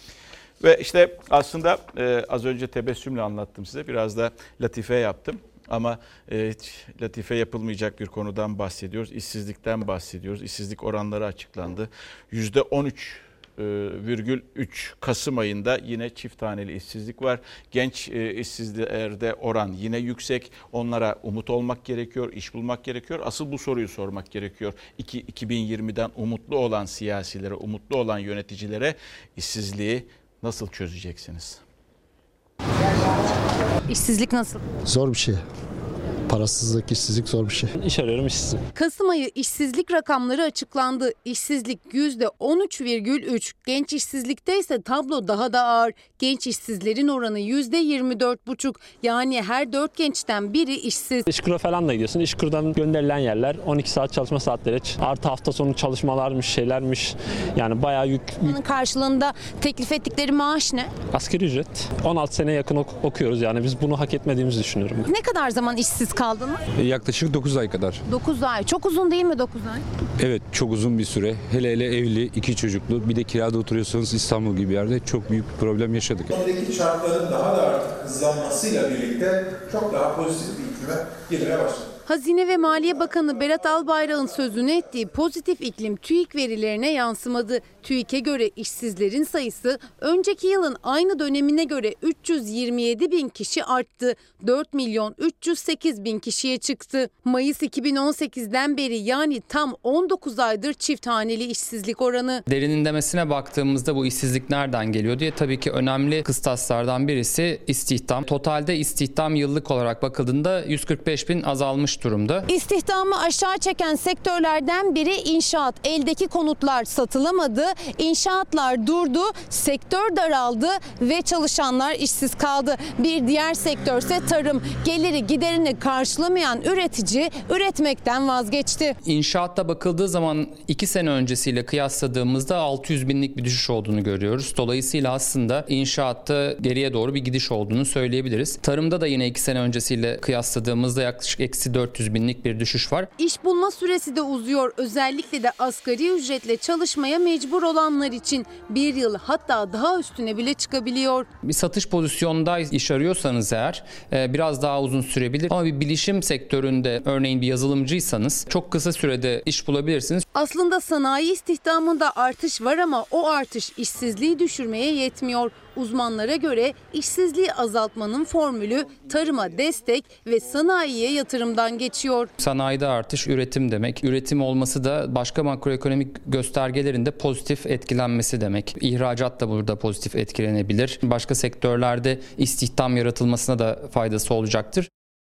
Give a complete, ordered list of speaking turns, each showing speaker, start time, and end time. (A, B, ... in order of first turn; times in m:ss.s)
0:00.6-0:31.6 A
0:33.9-0:34.6 B
0:34.8-0:35.4 C
0:36.3-0:37.7 C
0:37.8-0:38.6 D
0:38.7-0:51.2 B
0:51.3-0:58.5 D
0:58.4-1:00.9 B
1:01.1-1:05.1 D
1:05.0-1:06.6 B
1:06.8-1:08.0 E
1:08.1-1:09.8 B
1:10.2-1:16.3 E
1:16.3-1:21.9 F
1:22.0-1:42.4 B
1:42.5-1:52.4 G
1:52.5-2:09.0 B
2:09.0-2:23.1 G
2:23.2-2:31.3 B
2:31.4-2:40.2 G
2:40.3-2:52.3 B
2:52.4-3:04.9 G